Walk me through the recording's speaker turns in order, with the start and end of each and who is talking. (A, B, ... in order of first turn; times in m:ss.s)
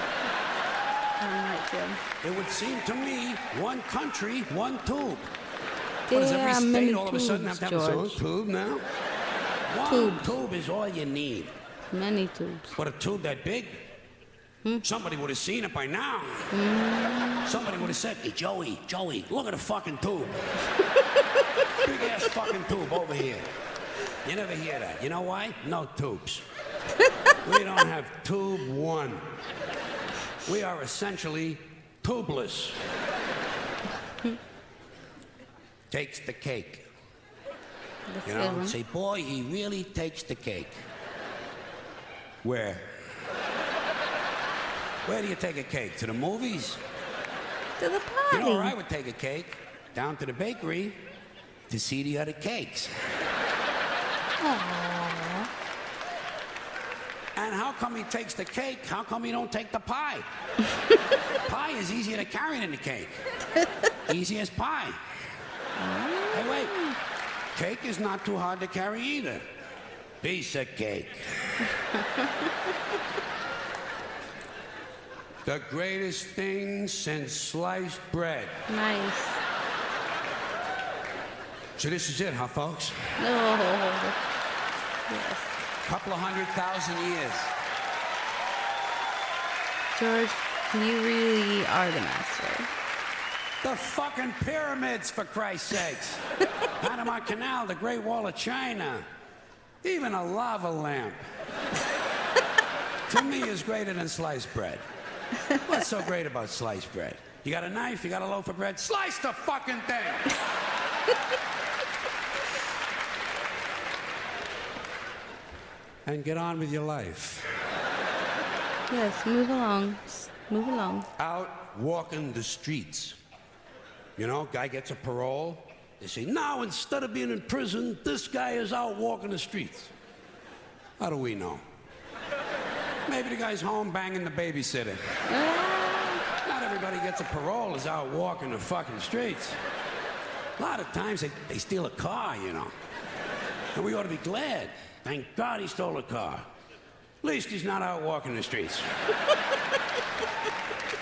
0:01.2-0:02.0 A
0:02.2-0:05.3 B
0:06.1-0:08.2 A
0:06.1-0:08.9 B
0:09.7-0:11.5 B
0:09.8-0:10.4 A
0:11.9-0:12.8 A
0:12.8-0:13.8 B
0:14.8-0:16.5 B
0:16.5-0:17.7 A
0:17.4-0:20.4 B
0:21.8-0:23.5 B
0:24.2-0:26.4 B
0:27.4-0:29.2 B
0:30.4-0:32.8 B
0:35.9-0:36.9 B
0:38.1-0:38.8 A
0:38.2-0:40.8 B
0:42.4-0:42.9 B
0:45.1-0:46.8 B
0:47.8-0:48.8 A
0:48.3-0:51.0 B
0:51.7-0:52.9 B
0:54.4-0:55.5 A
0:57.4-1:00.2 B
1:01.5-1:03.2 B
1:04.1-1:05.0 B
1:05.8-1:07.0 A
1:06.3-1:06.8 B
1:07.5-1:09.4 B
1:10.2-1:11.7 B
1:15.4-1:18.6 B
1:18.7-1:19.4 A
1:21.8-1:23.0 B
1:23.2-1:24.2 A
1:25.1-1:25.5 A
1:25.8-1:27.5 B
1:29.9-1:32.7 A
1:33.6-1:36.2 B
1:36.8-1:39.1 B
1:39.8-1:41.2 B
1:43.1-1:44.8 B
1:45.5-1:50.3 B
1:56.1-1:57.5 B
1:58.9-2:01.1 A
2:01.2-2:03.2 B
2:04.2-2:09.9 B
2:11.0-2:11.6 B
2:13.1-2:15.0 B
2:15.3-2:16.2 A
2:16.4-2:19.6 B
2:20.6-2:22.7 B
2:23.7-2:26.5 B
2:27.2-2:28.9 B